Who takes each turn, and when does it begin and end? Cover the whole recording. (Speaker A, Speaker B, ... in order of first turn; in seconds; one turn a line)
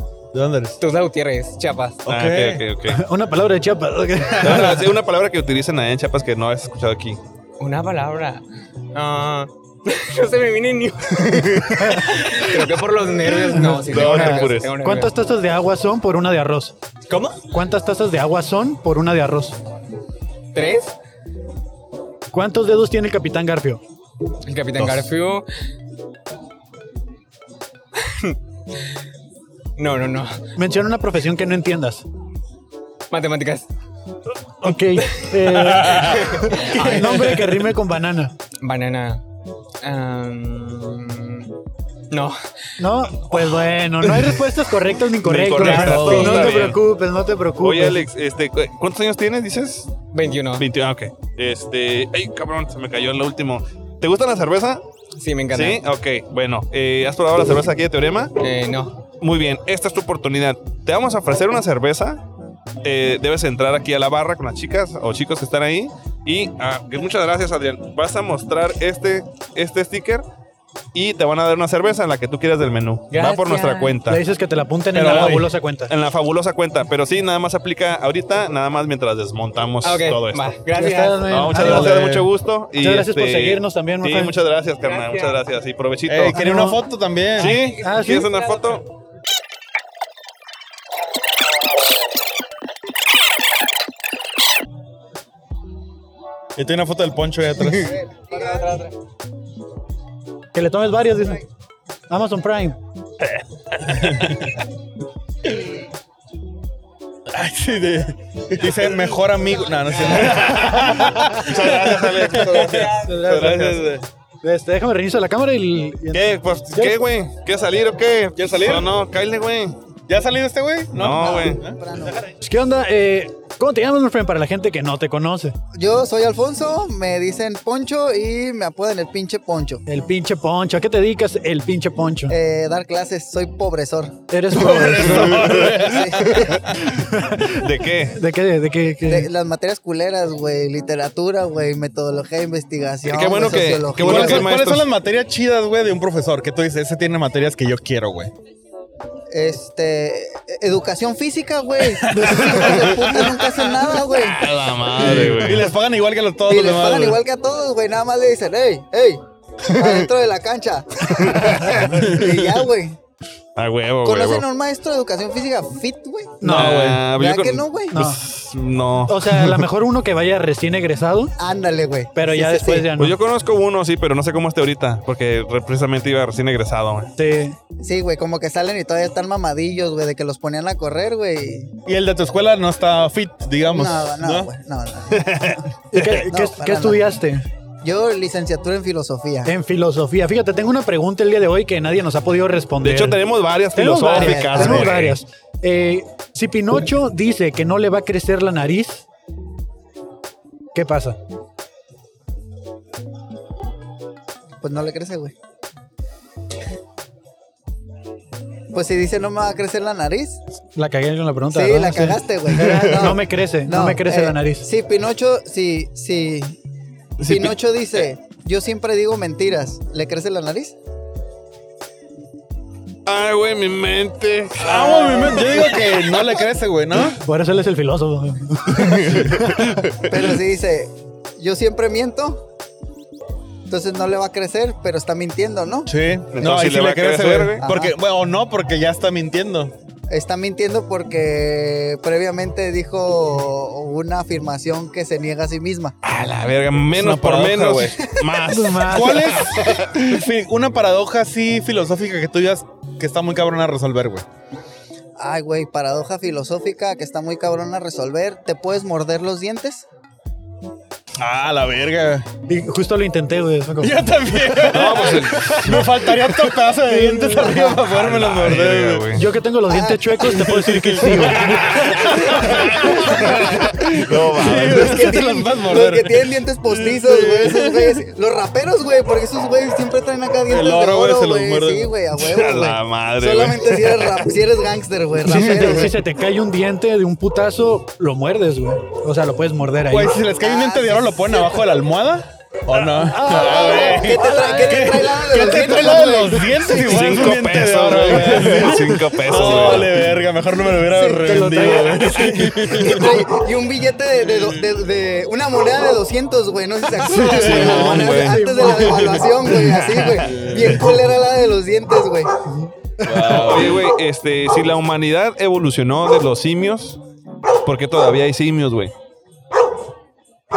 Speaker A: 0.3-0.8
Speaker B: 0.8-2.1
Speaker A: 2.0-2.6
Speaker C: 2.1-3.0
Speaker D: 2.9-4.8
Speaker A: 4.3-4.8
Speaker C: 4.4-7.2
Speaker B: 7.6-8.4
Speaker B: 8.9-15.1
Speaker C: 11.3-11.8
Speaker D: 13.5-16.7
Speaker C: 13.8-14.7
Speaker B: 17.1-17.4
Speaker D: 17.5-19.6
Speaker B: 20.5-20.9
Speaker D: 22.3-23.8
Speaker B: 24.5-25.4
Speaker B: 28.0-28.4
Speaker B: 29.8-30.4
Speaker D: 30.6-32.0
Speaker B: 33.1-33.7
Speaker D: 34.6-38.3
Speaker B: 35.0-37.6
Speaker A: 35.6-36.1
Speaker B: 38.6-39.2
Speaker B: 39.8-41.5
Speaker B: 42.1-42.4
Speaker D: 42.8-48.0
Speaker C: 45.2-46.8
Speaker B: 45.6-46.7
Speaker A: 45.7-46.2
Speaker C: 47.6-50.0
Speaker B: 50.1-50.7
Speaker C: 50.6-54.8
Speaker B: 55.2-55.8
Speaker C: 55.5-58.4
Speaker B: 58.4-59.0
Speaker C: 59.2-62.2
Speaker C: 62.8-70.2
Speaker C: 70.9-74.2
Speaker B: 73.1-74.0
Speaker D: 74.1-75.9
Speaker A: 74.9-75.5
Speaker C: 75.0-75.4
Speaker C: 75.9-80.4
Speaker B: 79.8-81.3
Speaker D: 80.8-82.0
Speaker C: 81.3-86.4
Speaker A: 81.5-82.3
Speaker D: 82.8-84.3
Speaker B: 84.8-85.4
Speaker A: 86.1-87.6
Speaker D: 86.3-86.8
Speaker C: 87.4-88.8
Speaker B: 87.4-88.7
Speaker D: 87.8-88.3
Speaker A: 96.6-98.0
Speaker E: 98.3-98.6
Speaker B: 98.3-98.9
Speaker D: 100.5-101.4
Speaker D: 102.1-102.8
Speaker A: 103.9-104.5
Speaker A: 107.3-114.0
Speaker C: 110.1-112.9
Speaker D: 112.9-113.9
Speaker D: 114.4-117.0
Speaker C: 116.1-119.8
Speaker A: 118.4-118.9
Speaker A: 120.1-121.8
Speaker C: 120.9-121.6
Speaker E: 121.2-122.2
Speaker D: 122.2-125.6
Speaker E: 125.7-129.8
Speaker D: 129.9-132.3
Speaker E: 132.3-134.2
Speaker D: 134.3-135.6
Speaker A: 134.5-136.6
Speaker C: 135.0-136.7
Speaker E: 135.6-136.6
Speaker D: 136.8-137.6
Speaker C: 137.5-138.2
Speaker D: 138.1-139.3
Speaker E: 139.1-144.5
Speaker C: 143.1-144.9
Speaker A: 144.0-148.3
Speaker E: 149.3-154.5
Speaker A: 151.8-153.1
Speaker D: 152.1-152.5
Speaker C: 152.8-153.2
Speaker C: 153.9-155.7
Speaker A: 155.0-157.2
Speaker E: 156.5-159.2
Speaker E: 159.7-163.0
Speaker C: 159.8-160.1
Speaker C: 161.1-162.2
Speaker A: 161.9-162.5
Speaker C: 163.6-164.5
Speaker E: 164.0-166.5
Speaker D: 166.4-166.9
Speaker C: 166.4-169.4
Speaker A: 166.4-167.1
Speaker E: 167.1-168.0
Speaker D: 167.9-168.2
Speaker D: 169.1-171.3
Speaker E: 171.4-172.9
Speaker D: 172.1-173.2
Speaker C: 172.9-177.1
Speaker D: 177.2-177.6
Speaker E: 177.8-181.7
Speaker A: 181.9-184.5
Speaker E: 183.7-185.4
Speaker C: 185.1-186.2
Speaker D: 185.9-187.4
Speaker E: 186.2-187.1
Speaker E: 187.8-189.5
Speaker D: 189.4-193.2
Speaker C: 192.8-195.2
Speaker D: 193.7-199.1
Speaker E: 194.1-194.9
Speaker D: 200.8-201.2
Speaker E: 204.6-205.3
Speaker E: 208.7-210.4
Speaker D: 210.8-214.7
Speaker E: 211.5-216.6
Speaker C: 217.2-217.6
Speaker E: 217.2-220.8
Speaker C: 223.1-226.1
Speaker A: 224.6-227.2
Speaker D: 227.2-229.6
Speaker C: 228.7-230.4
Speaker E: 230.1-232.4
Speaker E: 233.7-235.9
Speaker A: 235.9-239.7
Speaker C: 236.3-237.7
Speaker E: 237.6-237.9
Speaker E: 240.1-245.9
Speaker C: 246.0-249.2
Speaker A: 246.9-248.0
Speaker D: 248.5-249.3
Speaker A: 248.9-254.2
Speaker E: 255.2-259.9
Speaker A: 261.2-262.3
Speaker D: 262.5-264.0
Speaker A: 263.8-269.1
Speaker C: 264.7-265.9
Speaker D: 266.9-267.4
Speaker E: 267.3-267.8
Speaker C: 267.9-269.2
Speaker D: 269.2-271.8
Speaker E: 269.7-270.1
Speaker A: 270.2-278.0
Speaker C: 271.8-275.2
Speaker E: 274.6-286.0
Speaker A: 280.5-281.9
Speaker C: 282.2-284.3
Speaker D: 285.2-290.1
Speaker A: 289.9-303.2
Speaker E: 290.3-291.4
Speaker D: 292.9-294.9
Speaker E: 293.2-296.6
Speaker C: 296.7-299.9
Speaker E: 300.9-301.4
Speaker D: 301.0-302.9
Speaker E: 302.8-312.3
Speaker A: 304.2-304.6
Speaker C: 307.1-309.0
Speaker D: 307.4-309.3
Speaker A: 308.6-311.0
Speaker A: 313.0-313.8
Speaker D: 313.1-313.5
Speaker C: 313.2-317.0
Speaker C: 317.6-318.9